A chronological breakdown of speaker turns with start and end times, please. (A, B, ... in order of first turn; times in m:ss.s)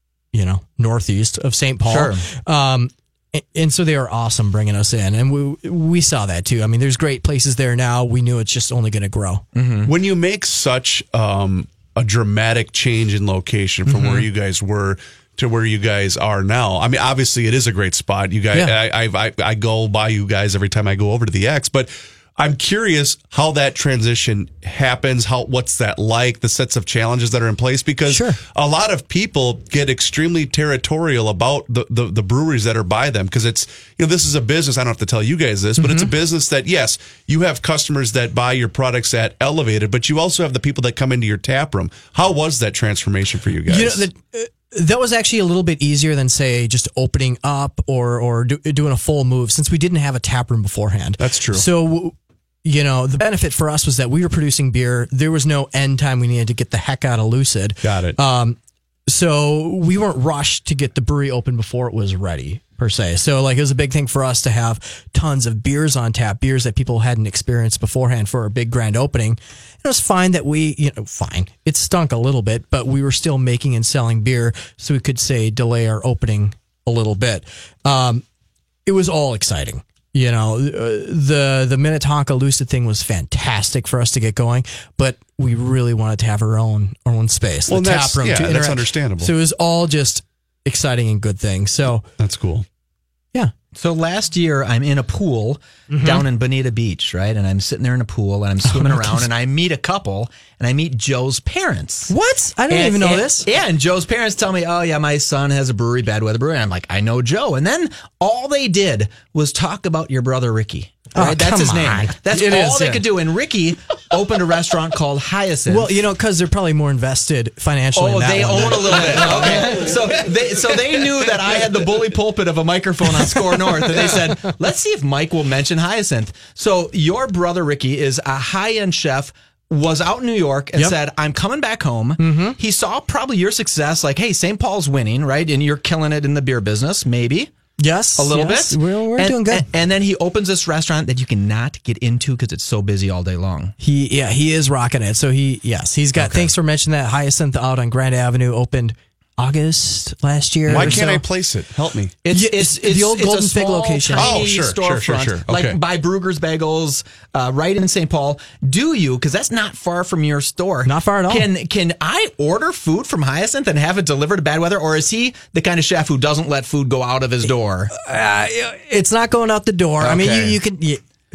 0:00.3-0:09.4 A
0:01.9-0:02.3 B
0:09.5-0:09.9 B
0:09.9-0:44.1 C
0:14.0-0:14.2 A
0:28.1-0:28.4 A
0:35.8-0:36.1 A
0:43.7-0:58.6 A
0:51.2-0:51.7 C
0:57.8-0:58.2 C
0:59.1-1:18.2 A
1:18.9-1:32.1 A
1:27.7-1:29.3 C
1:32.2-1:32.7 C
1:33.7-1:42.1 B
1:35.9-1:36.2 A
1:38.7-1:39.2 A
1:42.1-1:43.5 A
1:42.7-1:55.9 B
1:51.1-1:53.1 A
1:55.7-2:00.0 A
1:57.9-2:17.5 B
2:03.6-2:04.2 A
2:12.2-2:12.6 A
2:17.8-2:19.7 A
2:18.2-2:23.7 B
2:23.8-2:31.2 A
2:26.2-2:26.5 B
2:30.7-2:31.0 B
2:30.7-2:32.2 C
2:32.2-2:47.9 B
2:32.3-2:34.4 A
2:34.2-2:35.8 C
2:40.8-2:41.5 A
2:47.9-2:51.0 A
2:50.0-2:50.6 B